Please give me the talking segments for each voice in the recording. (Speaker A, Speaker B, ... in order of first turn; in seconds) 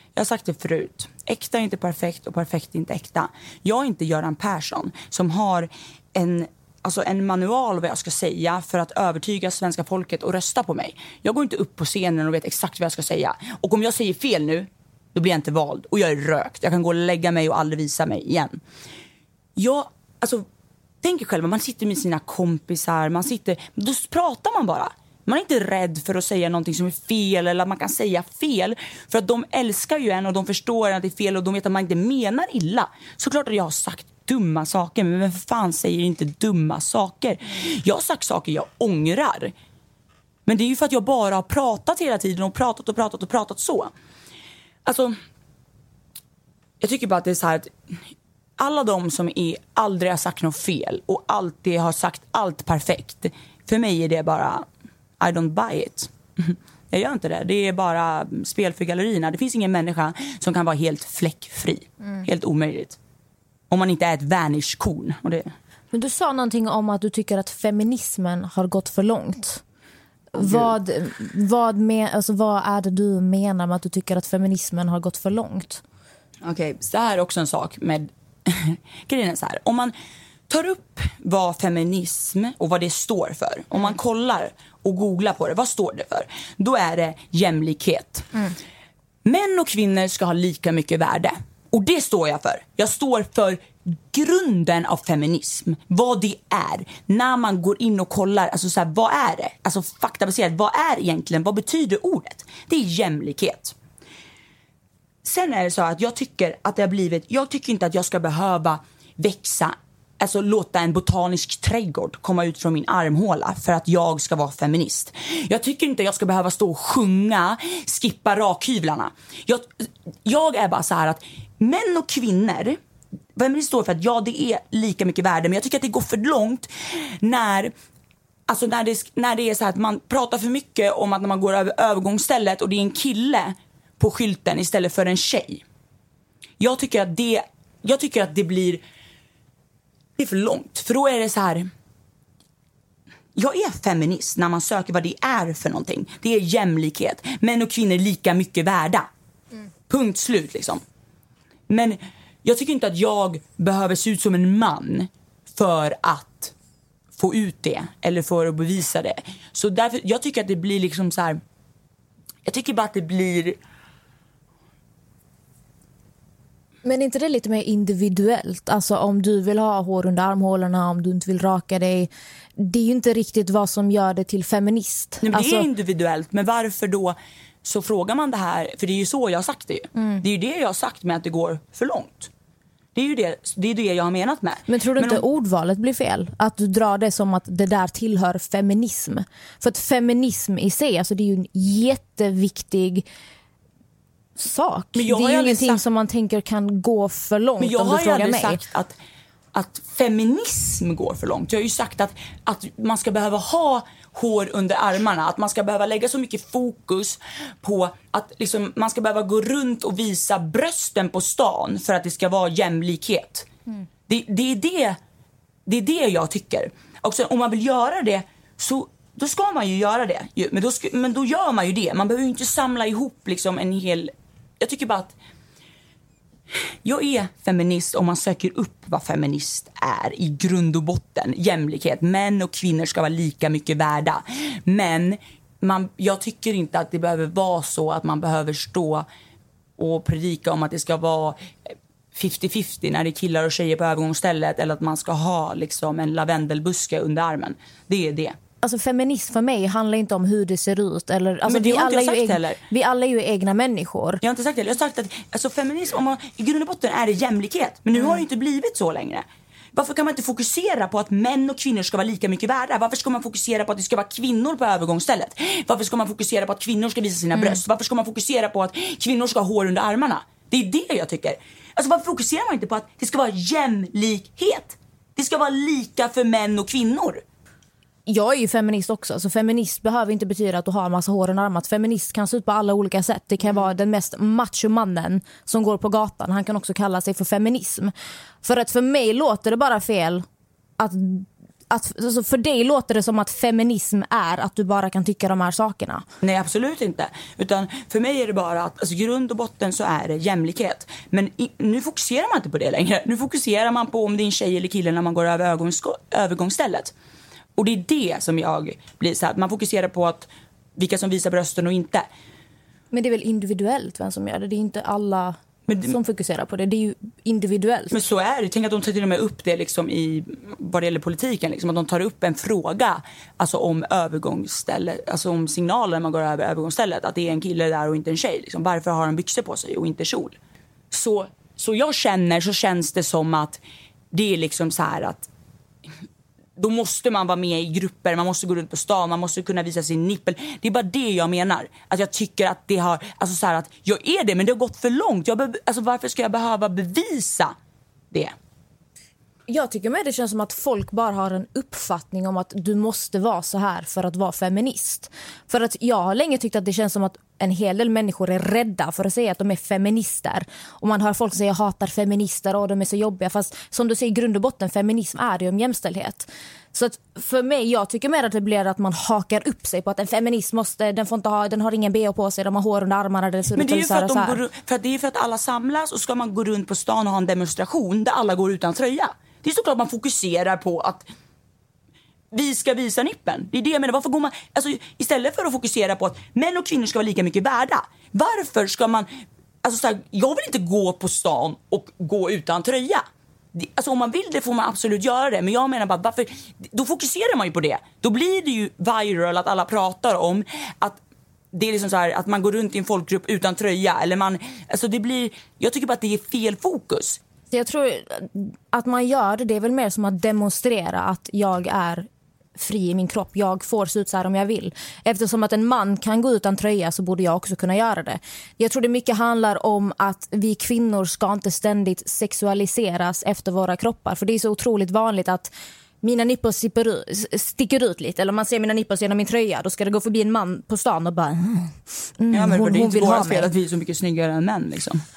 Speaker A: 0.1-18.6, 19.6-20.4, 21.0-39.5, 40.5-43.9, 44.9-45.2, 46.8-47.7, 48.6-54.7, 55.2-63.0, 63.7-65.5, 70.4-70.7, 76.4-79.9, 80.5-88.5, 89.2-103.8, 105.2-122.8, 123.4-127.7, 128.5-135.6, 136.6-138.8, 140.2-141.7, 143.3-149.1, 149.9-150.8, 151.7-156.5, 157.1-161.4, 162.4-163.6, 175.2-182.3, 182.9-185.2, 194.9-195.8, 197.6-199.0, 199.5-213.5, 214.1-215.0, 215.7-225.1, 226.8-239.1, 239.8-241.4, 242.1-248.4, 251.5-252.6, 254.2-277.2, 296.2-306.9, 307.6-312.1, 315.7-316.0, 317.9-330.4, 330.9-333.6, 334.1-335.3, 336.6-347.6, 373.6-381.1, 382.3-389.1, 389.6-401.0, 401.5-407.2, 432.3-435.0
Speaker B: 65.9-69.6, 70.3-75.8, 166.8-175.7, 180.0-180.2, 184.7-193.1, 194.4-198.6, 248.6-254.2, 278.1-287.9, 288.4-290.2, 290.8-296.0, 312.9-318.0, 349.5-374.4, 407.5-433.5